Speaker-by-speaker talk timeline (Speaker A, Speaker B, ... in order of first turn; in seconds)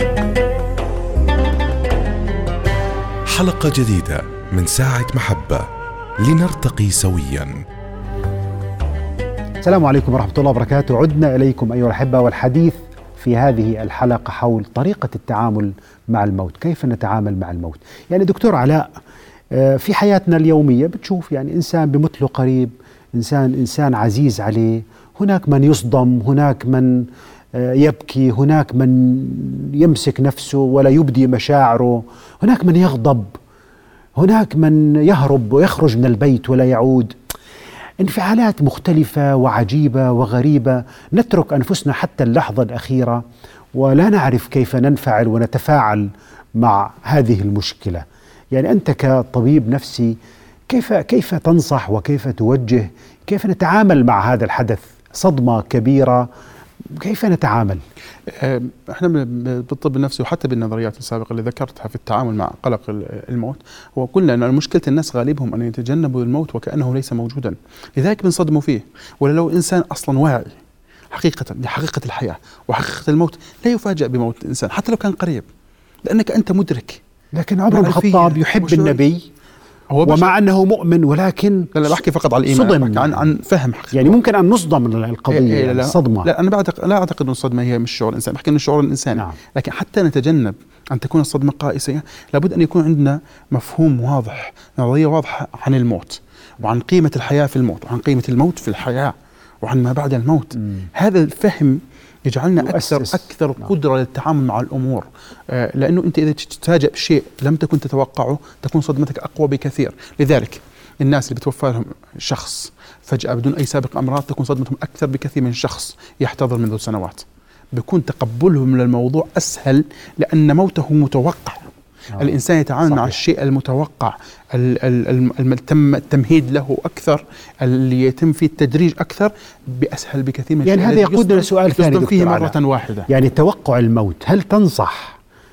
Speaker A: 3.3-5.7, 6.2-7.6
Speaker B: 9.6-18.9, 19.5-33.3, 34.2-37.2, 38.0-50.2, 50.7-56.3, 57.0-57.8, 77.3-79.3, 80.0-81.8, 82.5-83.3, 83.9-86.3, 102.6-103.2, 122.9-123.2, 130.7-132.6, 133.1-135.2
Speaker C: 58.4-70.6, 71.1-75.5, 76.0-77.0, 77.7-79.0, 79.9-80.3, 81.7-84.2, 85.3-133.1